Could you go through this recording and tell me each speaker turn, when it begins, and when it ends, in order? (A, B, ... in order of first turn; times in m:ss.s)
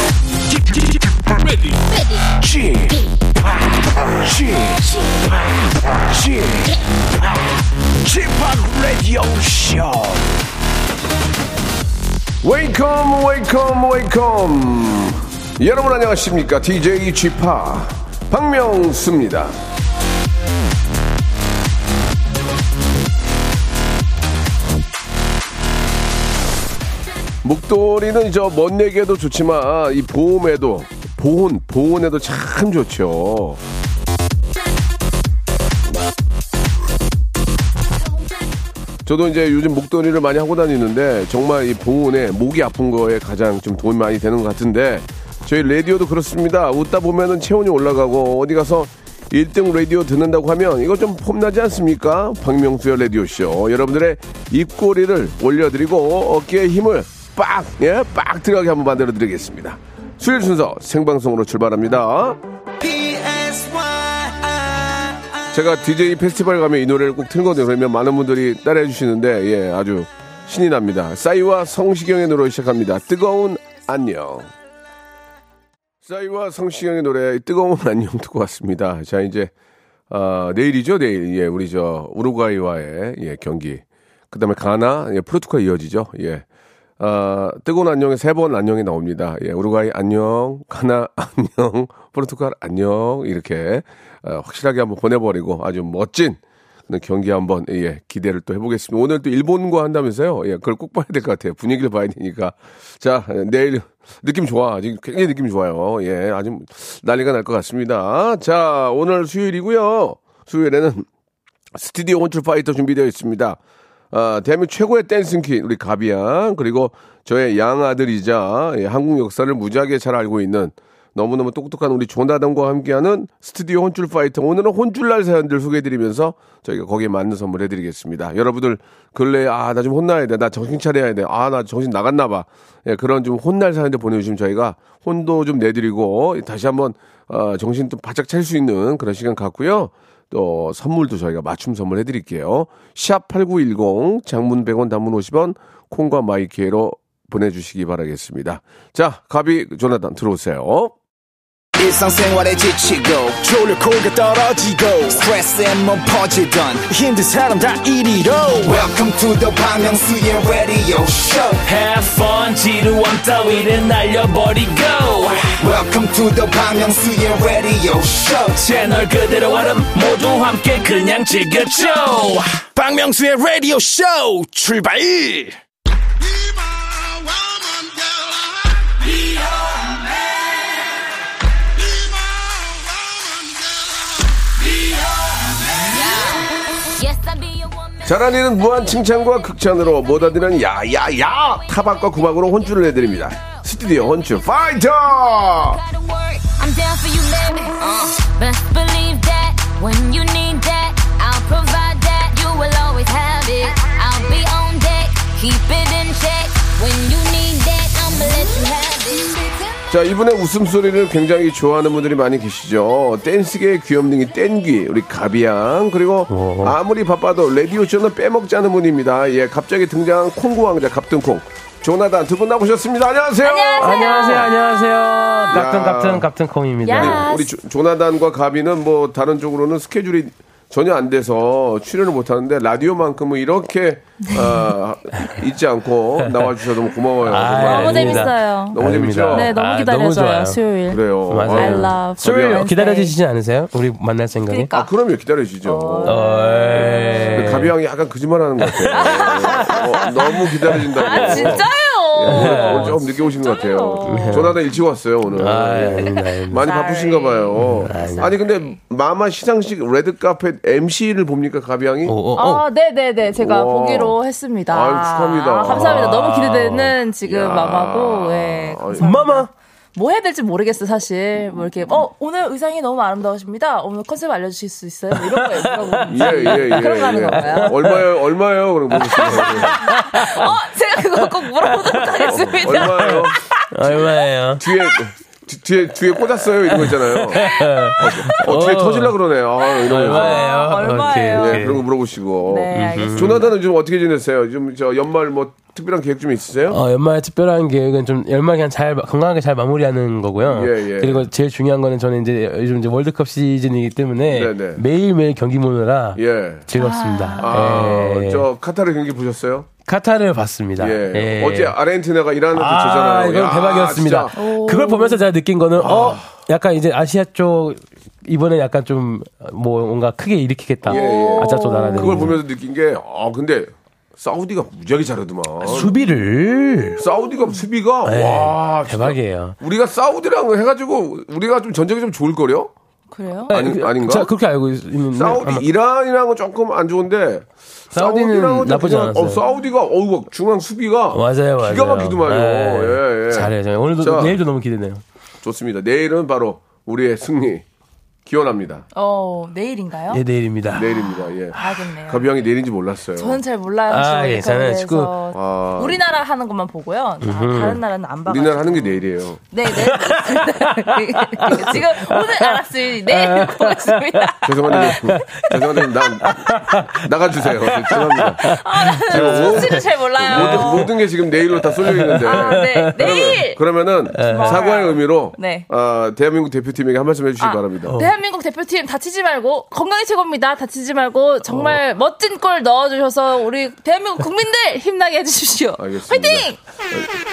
0:00.7-0:01.7 A
0:01.8-0:02.3 B
0:02.4-0:03.0 A
0:04.2-0:05.0 A
0:06.1-0:06.7 A
0:08.1-0:10.3 A
0:08.7-0:09.7 C
0:12.4-0:19.6 D
0:27.4-0:33.6 D
0:39.0-1:02.4 D
1:02.8-1:05.5 C
1:05.5-1:14.5 D
1:16.0-1:19.5 D
1:20.1-1:26.5 D
1:27.0-1:51.1 D
1:51.8-1:53.6 D
1:54.1-2:31.0 D
2:31.8-2:41.6 C
2:41.6-2:45.6 E
2:45.6-2:48.7 C
2:48.6-2:52.6 E
2:52.7-2:55.6 C
3:05.9-3:13.9 B
3:08.0-3:15.8 D
3:15.5-3:29.6 B
3:29.9-3:44.5 D
3:36.3-3:36.8 F
3:43.4-3:45.4 G
3:43.8-3:47.3 F
3:45.5-3:46.3 D
3:46.8-3:47.5 G
3:46.9-3:59.5 D
3:54.2-3:54.7 G
3:56.3-3:56.5 F
3:57.3-4:00.6 F
3:57.6-4:03.1 G
4:00.9-4:02.6 D
4:01.3-4:04.7 F
4:04.5-4:04.9 G
4:04.7-4:06.2 D
4:05.6-4:07.6 G
4:06.0-4:07.7 F
4:07.3-4:22.2 D
4:08.6-4:11.7 F
4:09.0-4:10.4 G
4:11.0-4:14.5 G
4:12.3-4:13.0 F
4:14.1-4:14.6 F
4:15.4-4:16.7 F
4:15.9-4:18.3 G
4:17.6-4:18.3 F
4:22.0-4:22.7 F
4:22.4-4:37.8 G
4:23.4-4:24.2 D
4:24.7-4:26.3 D
4:25.7-4:27.0 F
4:27.2-4:29.2 D
4:29.0-4:29.5 F
4:35.2-4:36.9 F
4:36.1-4:39.8 D
4:37.4-4:38.2 F
4:39.0-4:40.6 F
4:39.2-4:44.0 G
4:42.0-4:44.7 F
4:42.2-4:44.0 D
4:44.6-4:50.5 D
4:46.8-4:49.2 F
4:47.4-4:47.7 G
4:49.8-4:51.6 G
4:49.8-4:51.8 F
4:51.4-4:56.8 D
4:52.4-4:53.5 G
4:52.7-4:53.4 F
4:56.7-5:08.4 F
5:00.4-5:01.3 D
5:04.3-5:04.8 D
5:06.2-5:06.7 D
5:06.8-5:08.0 G
5:07.4-5:09.7 D
5:09.9-5:11.8 F
5:10.8-5:14.4 D
5:12.6-5:22.4 F
5:14.4-5:15.2 G
5:15.8-5:16.3 D
5:20.8-5:25.9 D
5:20.9-5:22.3 G
5:25.6-5:27.0 F
5:27.0-5:32.7 D
5:28.0-5:29.6 F
5:33.1-5:33.5 G
5:33.5-5:34.3 D
5:33.5-5:35.7 F
5:35.1-5:44.4 D
5:37.9-5:39.4 F
5:41.1-5:45.0 F
5:45.4-5:47.6 D
5:48.3-5:48.9 D
5:49.0-5:50.2 G
5:50.1-5:51.0 F
5:50.7-5:53.4 D
5:51.2-5:52.3 G
5:53.2-6:05.5 G
5:53.9-5:55.1 F
5:55.3-5:56.0 D
5:57.2-5:57.8 F
5:58.3-5:59.4 D
5:59.9-6:02.4 F
6:03.1-6:11.0 F
6:04.4-6:18.0 D
6:08.4-6:10.9 G
6:11.6-6:13.4 F
6:12.2-6:13.6 G
6:14.2-6:15.7 G
6:14.2-6:14.7 F
6:17.4-6:26.6 G
6:17.9-6:18.1 F
6:25.8-6:27.1 D